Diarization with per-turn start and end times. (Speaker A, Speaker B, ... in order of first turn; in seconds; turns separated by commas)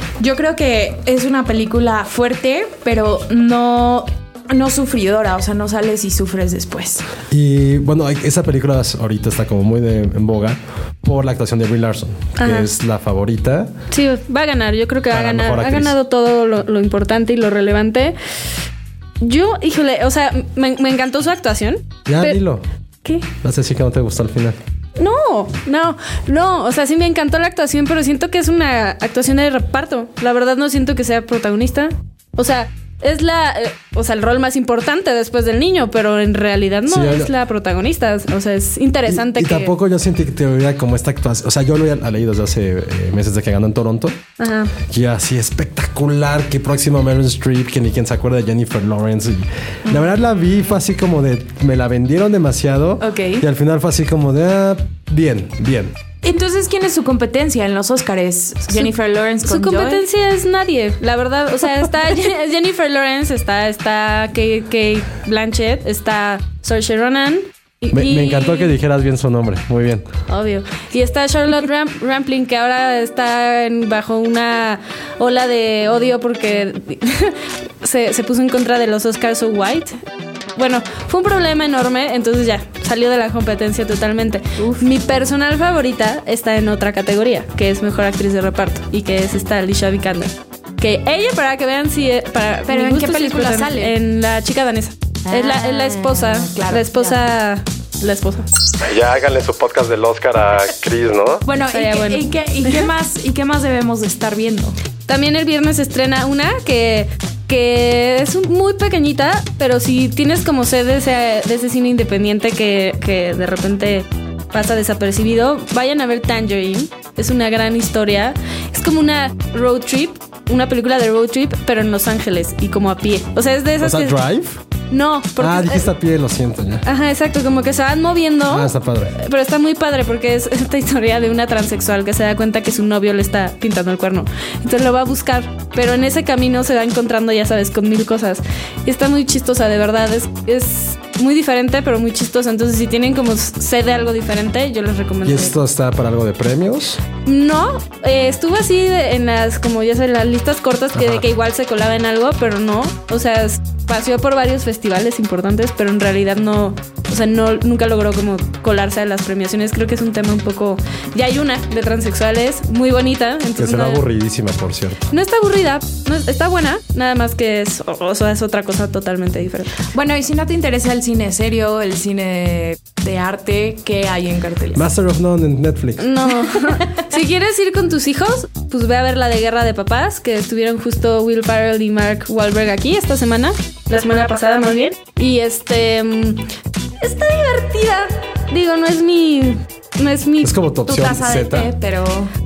Speaker A: 0.2-7.1, Speaker B: 7.3-13.7, Speaker C: 12.4-12.7, Speaker C: 13.9-18.2, Speaker B: 15.1-15.9, Speaker C: 19.2-22.4, Speaker B: 22.1-22.6, Speaker B: 23.4-24.6, Speaker C: 25.0-39.8, Speaker B: 36.9-37.3, Speaker B: 39.1-44.2, Speaker C: 44.4-44.7, Speaker B: 44.9-56.0, Speaker A: 53.0-53.5, Speaker A: 56.2-60.0, Speaker C: 59.4-68.7, Speaker B: 67.9-70.0, Speaker C: 70.3-80.0, Speaker C: 80.6-98.5, Speaker A: 84.6-84.8, Speaker A: 92.7-93.9, Speaker A: 95.3-97.2, Speaker B: 98.8-101.4, Speaker A: 101.4-104.8, Speaker C: 101.7-102.9, Speaker C: 105.1-124.2, Speaker B: 123.8-124.6, Speaker C: 124.9-125.9, Speaker B: 125.4-126.8, Speaker C: 126.9-145.6, Speaker B: 128.5-129.2, Speaker B: 145.2-147.0, Speaker C: 147.2-164.0, Speaker B: 150.9-151.2, Speaker B: 163.6-165.1, Speaker C: 165.1-169.8, Speaker A: 169.9-174.9, Speaker B: 174.7-176.1, Speaker C: 176.0-186.5, Speaker A: 176.4-177.1, Speaker C: 187.0-190.5, Speaker B: 190.4-191.7, Speaker A: 190.9-192.3